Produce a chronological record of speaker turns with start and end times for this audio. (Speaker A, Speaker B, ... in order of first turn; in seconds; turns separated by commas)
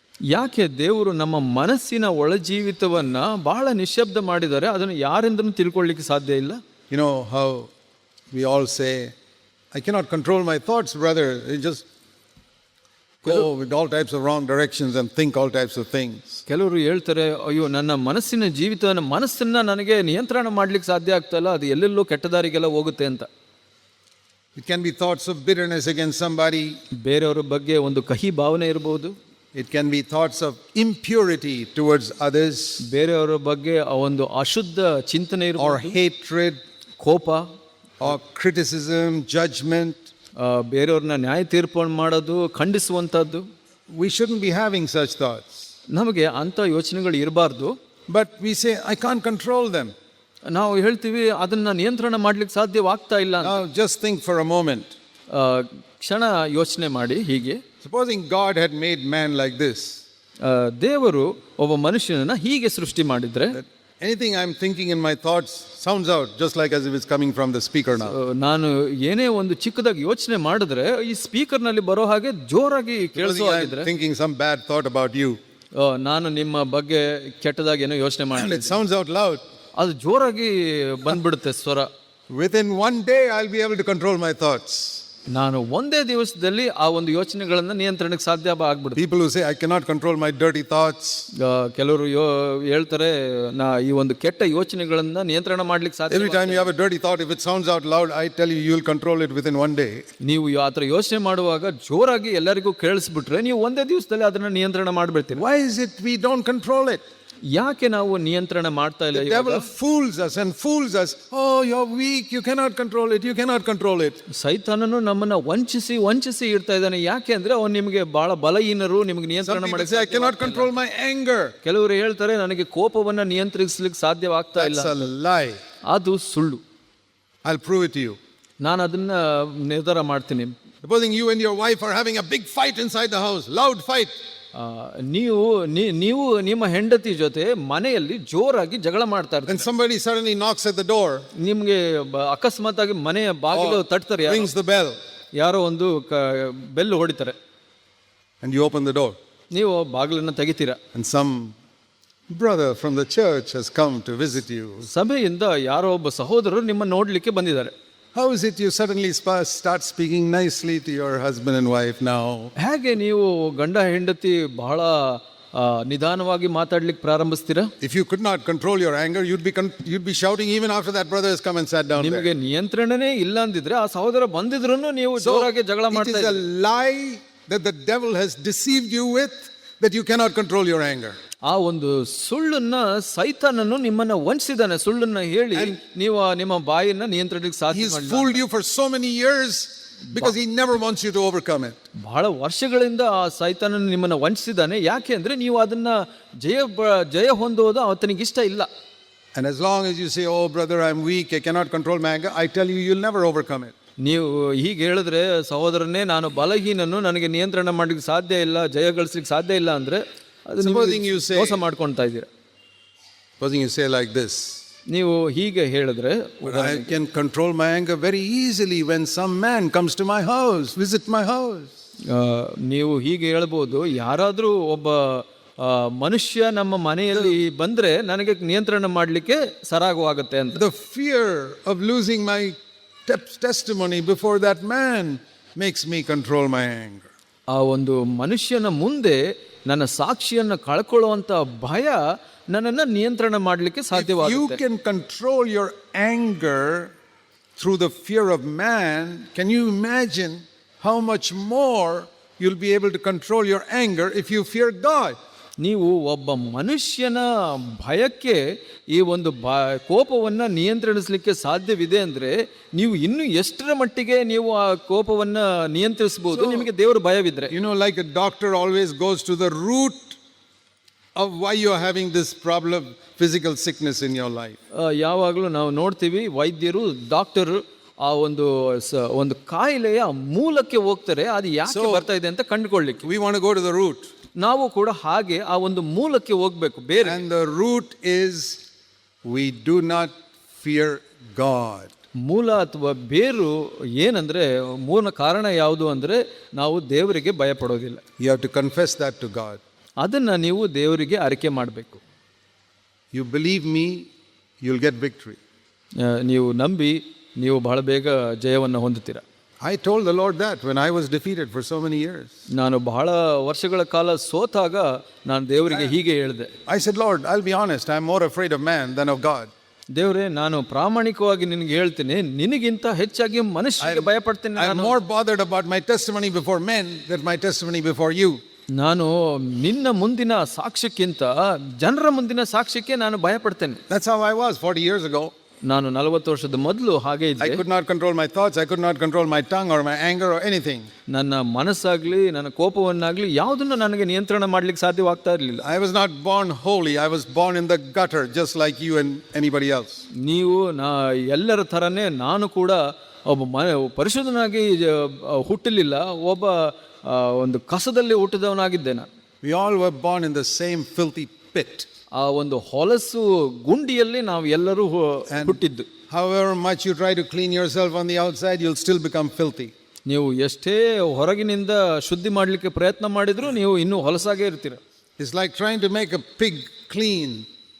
Speaker A: 0.3-6.6, Speaker B: 6.9-7.7, Speaker B: 8.3-9.1, Speaker B: 9.7-11.8, Speaker B: 13.2-16.4, Speaker A: 16.5-23.3, Speaker B: 24.5-26.8, Speaker A: 26.9-29.1, Speaker B: 29.5-32.9, Speaker A: 32.8-36.0, Speaker B: 35.6-36.6, Speaker A: 37.0-37.5, Speaker B: 38.0-40.1, Speaker A: 40.4-43.4, Speaker B: 43.9-45.6, Speaker A: 45.9-47.7, Speaker B: 48.1-49.9, Speaker A: 50.5-53.6, Speaker B: 53.4-54.9, Speaker A: 55.3-57.6, Speaker B: 57.8-60.0, Speaker A: 60.4-63.6, Speaker B: 63.5-68.1, Speaker A: 68.1-73.9, Speaker B: 73.2-75.4, Speaker A: 75.8-78.8, Speaker B: 78.3-79.4, Speaker A: 79.8-81.9, Speaker B: 82.3-85.0, Speaker A: 85.3-89.0, Speaker B: 88.9-91.3, Speaker A: 91.3-96.7, Speaker B: 96.1-100.1, Speaker A: 100.2-105.4, Speaker B: 105.3-107.0, Speaker A: 107.5-109.7, Speaker B: 109.1-114.2, Speaker A: 114.3-120.7, Speaker B: 119.4-121.5, Speaker A: 121.6-124.9, Speaker B: 124.5-125.6, Speaker A: 125.9-126.6, Speaker B: 127.4-128.2, Speaker A: 128.6-130.5, Speaker B: 130.8-134.2, Speaker A: 134.5-139.6, Speaker B: 139.5-141.3, Speaker A: 141.3-144.5, Speaker B: 143.5-145.0, Speaker A: 145.4-147.3, Speaker B: 148.4-149.2, Speaker A: 149.5-150.8, Speaker B: 150.9-151.5, Speaker B: 152.3-154.9, Speaker A: 154.8-157.7, Speaker B: 158.1-162.5, Speaker A: 162.6-167.7, Speaker B: 167.8-172.3, Speaker A: 172.0-176.4, Speaker B: 175.2-181.2, Speaker A: 181.5-188.4, Speaker B: 187.7-191.8, Speaker A: 192.0-198.7, Speaker B: 199.3-203.7, Speaker A: 204.0-212.3, Speaker B: 210.6-211.6, Speaker B: 213.4-214.6, Speaker A: 214.9-216.9, Speaker B: 216.4-221.7, Speaker A: 222.1-230.6, Speaker B: 230.5-237.1, Speaker A: 237.5-244.6, Speaker B: 243.9-246.9, Speaker B: 247.6-255.2, Speaker A: 255.6-267.5, Speaker B: 266.3-266.7, Speaker B: 267.5-270.2, Speaker B: 271.1-274.6, Speaker A: 274.8-283.0, Speaker B: 281.7-282.1, Speaker B: 283.0-284.1, Speaker A: 284.4-287.2, Speaker B: 287.0-288.6, Speaker B: 289.2-291.9, Speaker A: 292.2-298.0, Speaker B: 298.2-299.6, Speaker A: 300.0-302.0, Speaker B: 303.1-304.1, Speaker B: 304.6-305.4, Speaker A: 306.0-309.2, Speaker B: 309.6-312.3, Speaker A: 312.5-316.5, Speaker B: 316.6-319.5, Speaker A: 319.9-324.9, Speaker B: 323.8-328.4, Speaker A: 328.8-333.8, Speaker B: 333.9-335.3, Speaker A: 335.7-337.6, Speaker B: 337.4-340.9, Speaker A: 341.1-345.6, Speaker B: 345.6-350.0, Speaker A: 350.2-359.1, Speaker B: 359.4-361.9, Speaker A: 362.2-365.9, Speaker B: 365.3-369.7, Speaker A: 370.1-374.8, Speaker B: 375.2-377.5